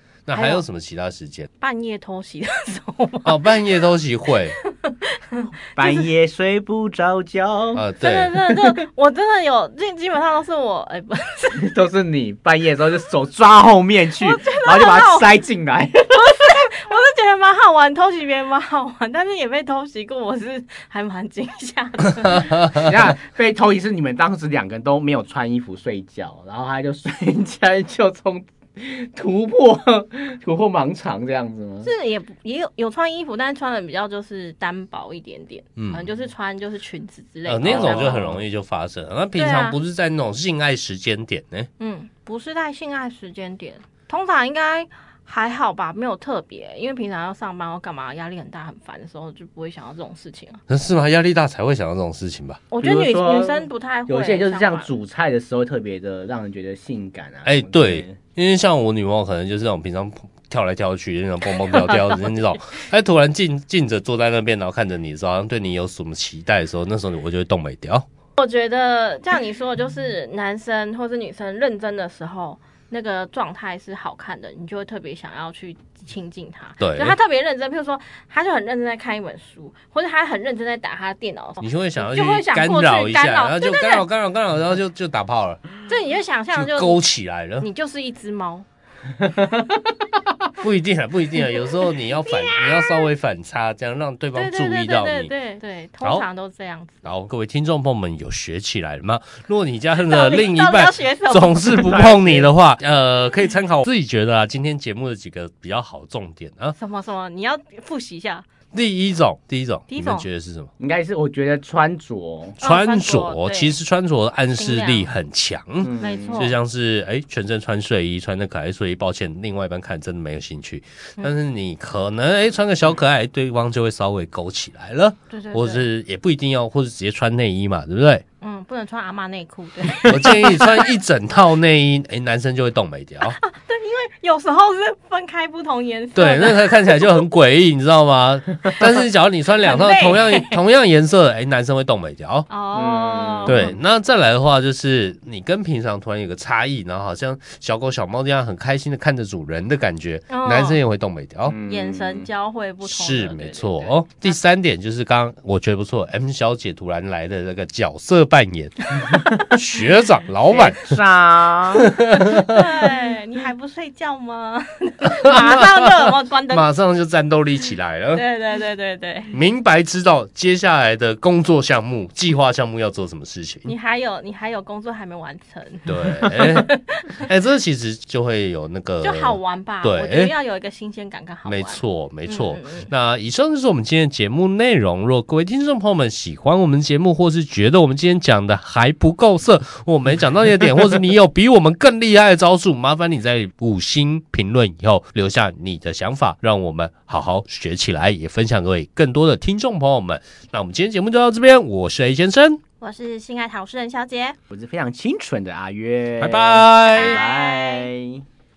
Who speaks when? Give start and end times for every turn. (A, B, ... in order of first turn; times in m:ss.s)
0:00.2-0:01.5 A
0:00.3-0:00.6 B
0:01.6-0:03.5 B
0:03.2-0:04.6 A
0:04.8-0:06.0 B
0:05.7-0:07.8 C
0:07.7-0:08.3 A
0:08.0-0:11.7 B
0:11.6-0:16.3 C
0:14.2-0:15.4 B
0:16.1-0:22.8 B
0:22.7-0:31.9 C
0:31.8-0:38.2 B
0:35.8-0:36.0 A
0:37.4-0:41.7 A
0:37.6-0:38.4 C
0:39.3-0:39.8 B
0:41.8-0:50.6 B
0:50.7-0:52.6 A
0:52.7-0:54.9 B
0:52.8-0:58.2 C
0:57.4-1:08.0 A
1:01.7-1:02.2 B
1:08.4-1:24.0 B
1:16.8-1:17.2 A
1:21.6-1:25.6 A
1:25.9-1:27.0 B
1:26.5-1:27.7 A
1:27.6-1:28.6 B
1:30.6-1:35.3 A
1:34.3-1:37.1 B
1:37.0-1:46.7 A
1:39.9-1:42.1 B
1:41.8-1:42.5 C
1:46.8-1:48.4 B
1:48.7-1:50.7 A
1:49.9-1:50.2 B
1:50.8-1:52.6 C
1:52.6-1:53.7 B
1:52.6-2:08.2 A
1:54.6-1:55.1 B
1:55.8-1:56.4 C
1:56.0-1:56.5 B
2:05.3-2:05.8 B
2:08.4-2:10.7 B
2:10.1-2:13.4 A
2:13.2-2:17.1 B
2:16.1-2:22.5 A
2:19.6-2:20.6 B
2:22.5-2:23.7 B
2:22.7-2:23.7 C
2:23.4-2:31.6 A
2:30.3-2:30.8 B
2:31.5-2:32.3 C
2:31.6-2:34.3 B
2:32.8-2:41.0 A
2:40.5-2:41.9 C
2:41.8-2:42.6 A
2:42.2-2:46.6 B
2:45.2-2:48.2 A
2:48.1-2:49.3 B
2:49.3-2:53.7 A
2:53.6-2:57.2 B
2:55.9-3:00.3 A
2:59.0-3:02.9 B
3:01.4-3:22.6 A
3:22.8-3:24.4 B
3:24.5-3:28.2 C
3:26.2-3:27.2 A
3:26.9-3:27.9 B